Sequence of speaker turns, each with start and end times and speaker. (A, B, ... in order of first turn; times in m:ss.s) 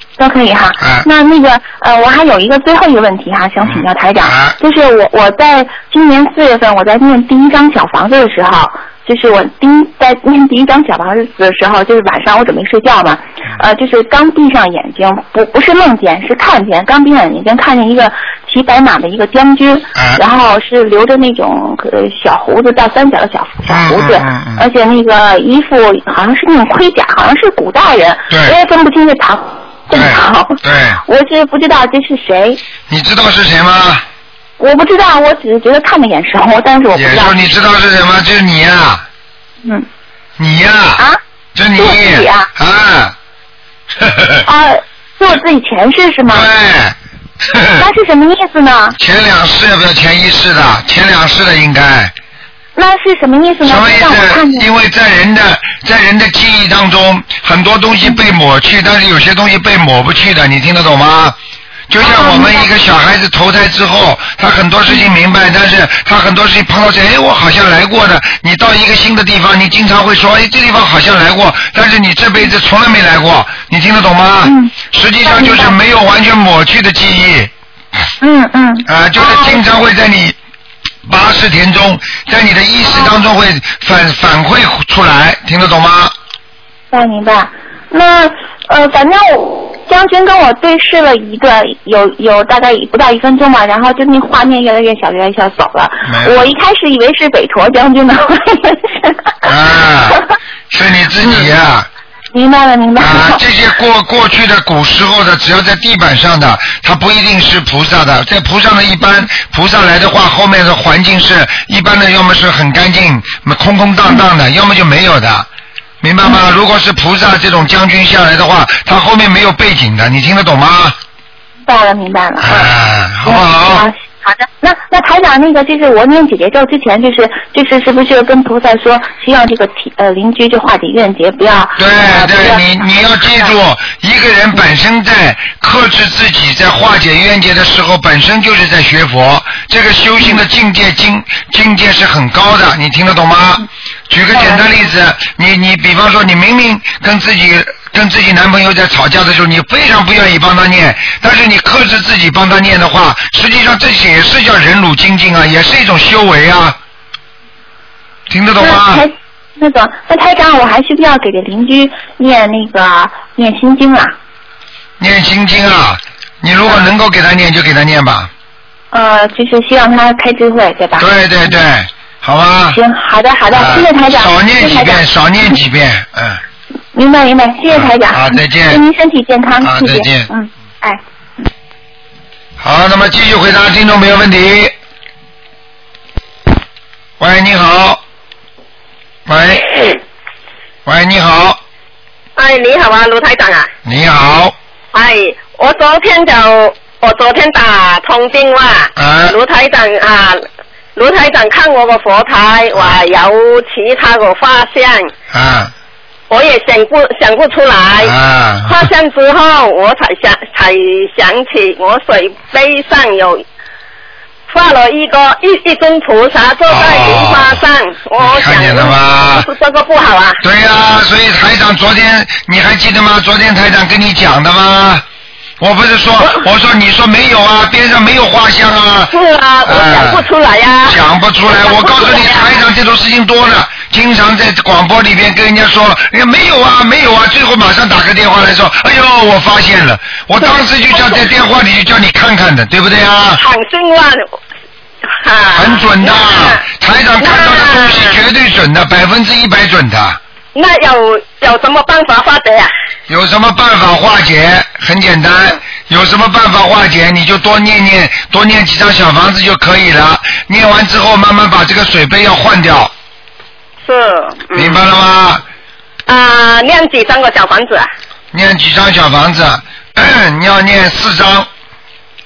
0:00.2-0:32.6 A
0:00.8-0:01.1 B
0:03.6-0:04.6 B
0:19.9-0:20.2 B
0:23.7-0:24.6 B
0:28.3-0:28.6 B
0:29.9-0:31.0 B
0:32.9-0:34.0 B
0:34.6-0:37.4 A
0:36.9-0:39.0 B
0:40.4-0:43.1 B
0:41.8-0:42.5 A
0:44.0-0:44.4 B
0:44.4-0:46.5 A
0:46.3-0:47.8 B
0:47.8-0:49.0 A
0:49.0-0:52.1 B
0:52.8-0:54.7 A
0:53.6-1:01.4 B
1:01.9-1:17.5 B
1:02.0-1:02.7 A
1:14.4-1:15.8 A
1:18.2-1:19.6 A
1:18.9-1:20.4 B
1:21.0-1:26.1 B
1:22.9-1:23.1 A
1:26.9-1:39.3 A
1:36.0-1:36.5 B
1:39.4-1:41.9 B
1:41.2-1:41.5 A
1:42.3-1:43.4 A
1:43.0-1:55.5 B
1:56.0-2:01.0 B
2:01.6-2:13.5 A
2:02.4-2:03.8 B
2:11.8-2:36.8 B
2:24.3-2:24.6 A
2:38.3-2:39.0 B
2:38.6-2:44.1 A
2:45.0-2:48.3 B
2:48.9-2:51.1 A
2:51.0-2:52.8 B
2:52.7-2:55.0 A
2:53.5-2:56.4 B
2:56.9-3:01.0 A
2:57.7-2:58.8 B
2:59.6-3:00.3 B
3:02.6-3:04.7 B
3:07.2-3:08.0 B
3:09.3-3:09.8 B
3:10.8-3:11.6 B
3:12.4-3:13.7 C
3:13.8-3:14.5 B
3:14.9-3:20.4 C
3:19.0-3:19.4 B
3:20.9-3:25.1 C
3:25.3-3:25.7 B
3:26.3-3:33.4 C
3:28.0-3:28.9 B
3:34.5-3:40.4 C
3:36.7-3:37.6 B
3:38.2-3:39.5 B
3:40.4-3:45.0 B
3:45.6-3:50.2 B
3:49.1-3:52.6 C
3:50.8-4:03.4 B
4:00.4-4:01.2 C
4:03.3-4:04.4 C
4:05.1-4:06.6 C
4:05.5-4:10.2 B
4:07.2-4:08.2 C
4:10.5-4:12.7 C
4:13.1-4:22.9 B
4:23.8-4:24.8 C
4:24.5-4:25.4 B
4:26.0-4:27.9 C
4:28.3-4:31.5 B